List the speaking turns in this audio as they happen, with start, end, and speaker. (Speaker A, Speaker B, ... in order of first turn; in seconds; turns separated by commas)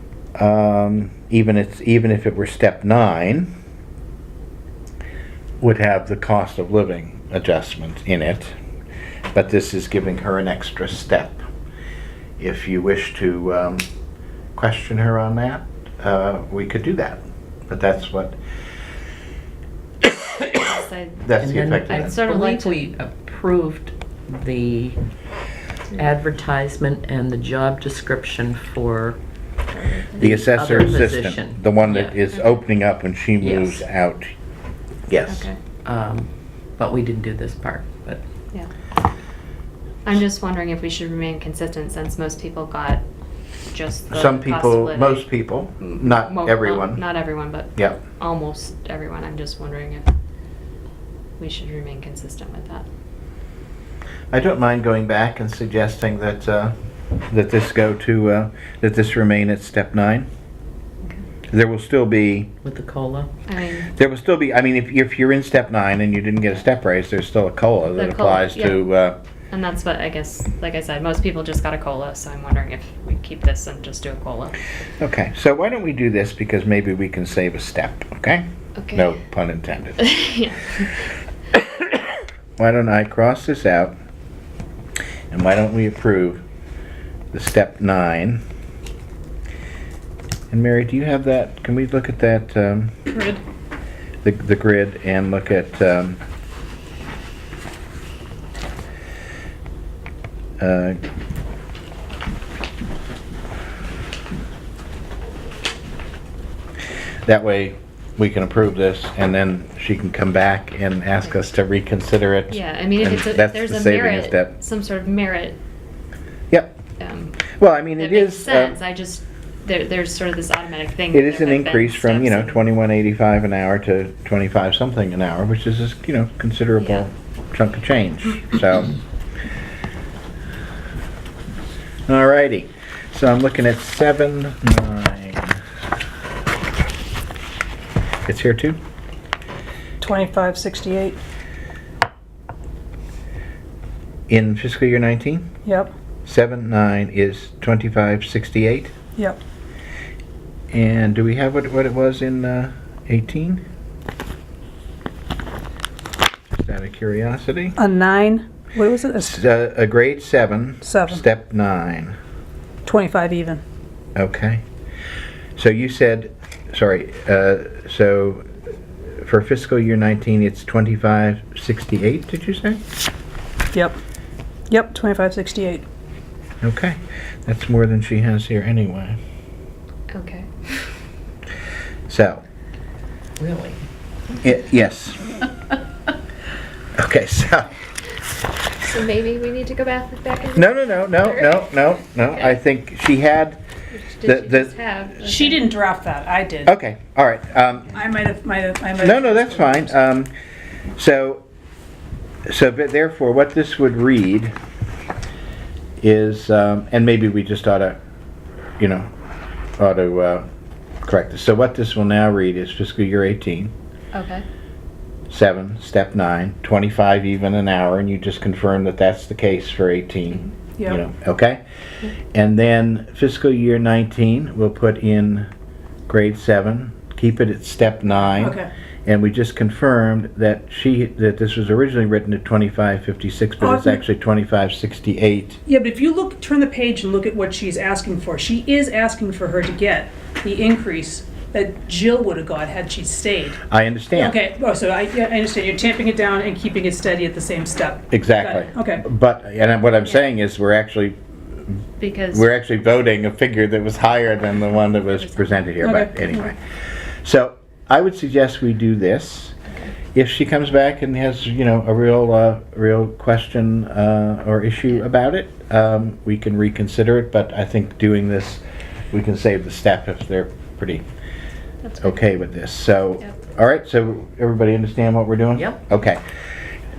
Speaker A: 0.4-3.5, Speaker A: 5.6-8.5, Speaker A: 9.3-11.4, Speaker A: 12.4-13.8, Speaker A: 14.6-18.4, Speaker B: 20.5-21.2, Speaker A: 21.2-22.2, Speaker C: 21.4-25.0, Speaker B: 21.9-22.9, Speaker C: 26.0-29.2, Speaker B: 29.7-30.5, Speaker C: 30.2-32.1, Speaker A: 30.2-34.3, Speaker B: 32.3-32.6, Speaker C: 33.4-33.8, Speaker A: 35.1-35.5, Speaker B: 35.3-35.6, Speaker C: 35.9-38.2, Speaker B: 40.0-43.0, Speaker B: 43.7-50.1, Speaker A: 44.1-47.1, Speaker B: 51.4-52.9, Speaker A: 54.3-56.8, Speaker A: 57.3-60.3, Speaker A: 61.5-62.5, Speaker C: 62.6-63.3, Speaker B: 63.5-63.9, Speaker A: 63.9-69.2, Speaker B: 68.0-68.9, Speaker B: 69.5-74.7, Speaker A: 75.0-80.1, Speaker B: 78.8-79.2, Speaker B: 80.0-80.9, Speaker A: 82.6-84.0, Speaker A: 85.3-86.4, Speaker A: 87.3-88.4, Speaker A: 90.5-93.0, Speaker D: 93.1-93.4, Speaker A: 94.2-96.2, Speaker A: 100.6-101.0, Speaker A: 107.3-114.5, Speaker B: 112.5-115.6, Speaker A: 116.5-116.8, Speaker B: 117.0-122.6, Speaker A: 117.5-118.8, Speaker A: 121.1-128.9, Speaker B: 126.8-127.0, Speaker A: 132.1-135.6, Speaker A: 138.3-138.8, Speaker D: 140.0-141.2, Speaker A: 144.3-145.5, Speaker D: 145.6-145.9, Speaker A: 146.2-148.9, Speaker A: 150.7-153.6, Speaker A: 156.5-157.8, Speaker D: 157.8-159.4, Speaker A: 159.2-162.2, Speaker D: 160.8-161.2, Speaker D: 162.9-163.6, Speaker A: 164.2-164.6, Speaker A: 165.6-168.5, Speaker A: 169.2-172.8, Speaker D: 174.7-175.8, Speaker A: 176.6-179.2, Speaker B: 180.1-180.8, Speaker A: 182.1-182.4, Speaker C: 183.4-183.8, Speaker A: 184.4-185.2, Speaker A: 187.0-187.7, Speaker B: 188.9-191.7, Speaker A: 190.6-193.6, Speaker B: 193.9-195.6, Speaker A: 194.2-194.7, Speaker D: 195.2-196.7, Speaker A: 196.7-198.0, Speaker D: 197.9-199.9, Speaker A: 199.0-200.3, Speaker A: 201.0-201.4, Speaker A: 202.5-204.5, Speaker A: 206.0-208.0, Speaker A: 208.8-209.1, Speaker A: 209.8-210.4, Speaker A: 211.0-213.7, Speaker B: 214.1-214.4, Speaker A: 215.3-221.6, Speaker A: 222.3-225.5, Speaker A: 226.1-235.6, Speaker D: 228.4-228.7, Speaker D: 233.6-234.0, Speaker D: 235.7-243.6, Speaker A: 243.7-244.4, Speaker D: 244.1-249.0, Speaker A: 248.1-251.8, Speaker B: 252.0-252.5, Speaker A: 252.3-256.6, Speaker B: 255.0-255.7, Speaker D: 255.8-256.5, Speaker A: 257.2-259.6, Speaker A: 260.1-271.0, Speaker B: 271.9-272.2, Speaker A: 272.0-276.2, Speaker C: 275.6-275.8